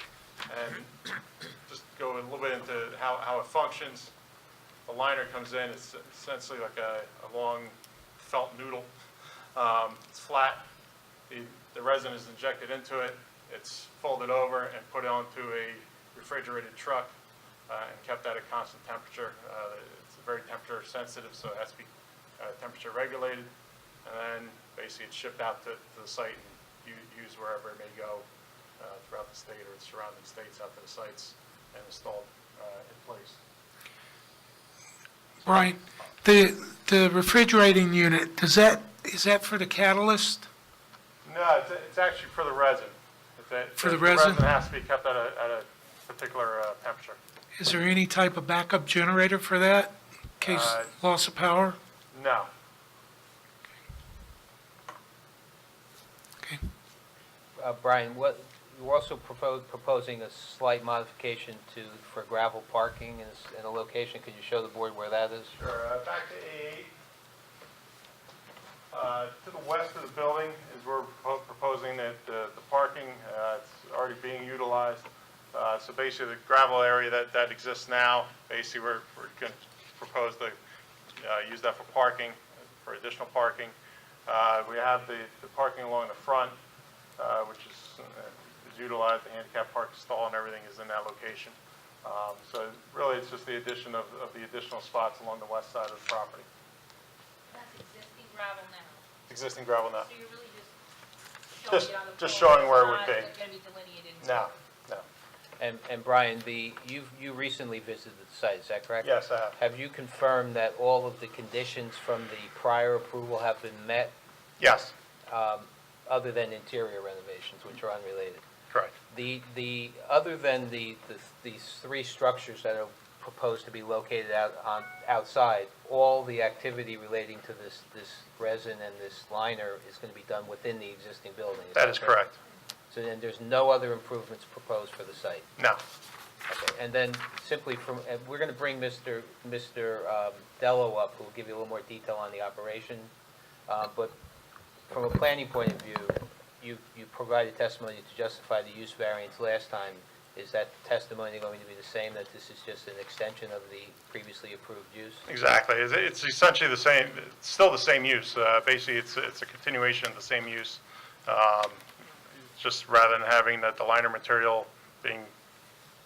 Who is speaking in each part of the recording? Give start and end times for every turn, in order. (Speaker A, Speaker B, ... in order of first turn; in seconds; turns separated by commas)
Speaker A: 0.5-1.0, Speaker A: 1.7-4.1, Speaker A: 4.9-8.9, Speaker A: 9.6-10.6, Speaker A: 11.3-17.1, Speaker A: 17.7-23.5, Speaker A: 24.1-28.2, Speaker A: 28.8-33.4, Speaker B: 35.4-40.4, Speaker A: 41.2-47.2, Speaker B: 43.8-44.5, Speaker B: 47.6-51.8, Speaker A: 50.4-50.9, Speaker A: 52.1-52.5, Speaker C: 57.6-65.5, Speaker A: 65.6-66.9, Speaker A: 68.9-80.6, Speaker A: 81.2-83.7, Speaker A: 84.3-86.6, Speaker A: 87.2-96.5, Speaker D: 97.5-99.0, Speaker A: 99.3-100.1, Speaker D: 100.0-100.7, Speaker D: 101.5-104.5, Speaker A: 101.7-103.3, Speaker A: 104.2-105.1, Speaker C: 105.6-114.1, Speaker A: 109.0-109.6, Speaker A: 114.6-114.9, Speaker C: 115.3-118.4, Speaker C: 119.1-132.2, Speaker A: 131.8-132.3, Speaker C: 132.9-135.5, Speaker C: 136.5-143.1, Speaker C: 143.7-144.1, Speaker C: 144.9-155.2, Speaker A: 155.3-161.9, Speaker A: 162.6-165.3